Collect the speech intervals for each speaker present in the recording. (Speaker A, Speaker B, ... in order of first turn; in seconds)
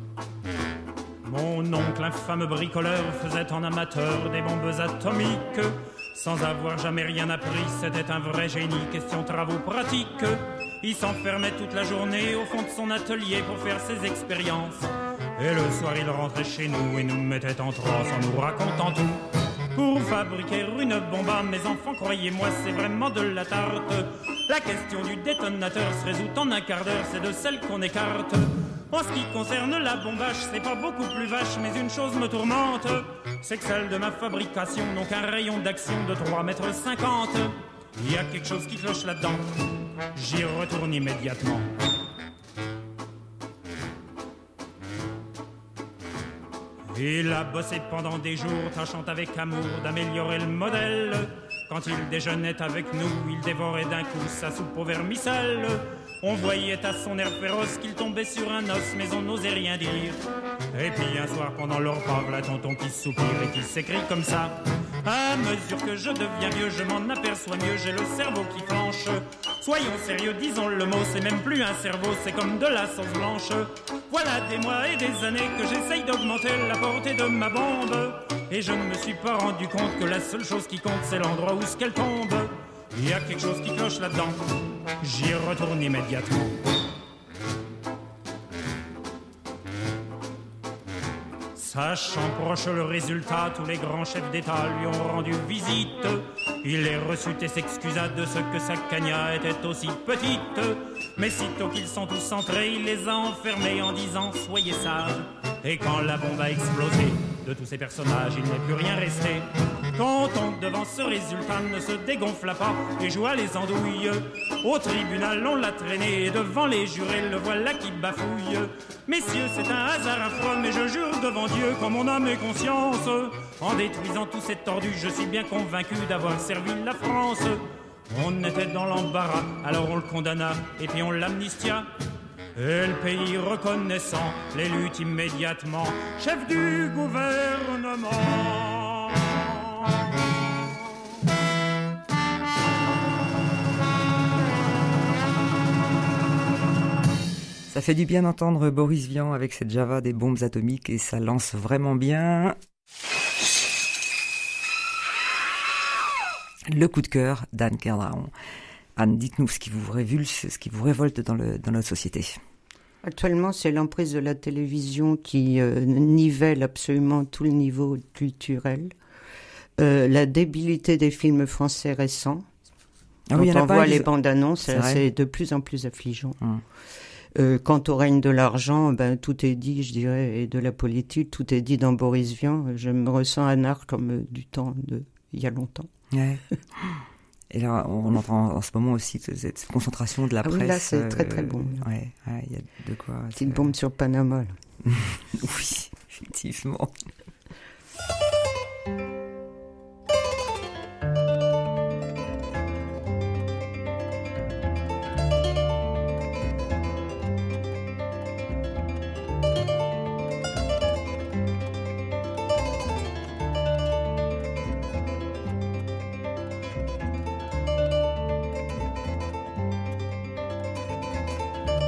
Speaker A: 1.2-39.4, 40.1-41.7, 46.9-60.2, 60.7-84.4, 85.0-86.6, 91.5-131.9, 132.6-140.0
Speaker B: 147.7-152.6, 156.7-158.3, 158.9-162.3, 173.3-174.1, 174.7-175.0, 186.1-193.7, 194.8-196.9
Speaker C: 163.0-168.9, 169.8-172.4, 173.3-176.4, 177.3-185.9, 190.4-191.8, 193.3-194.5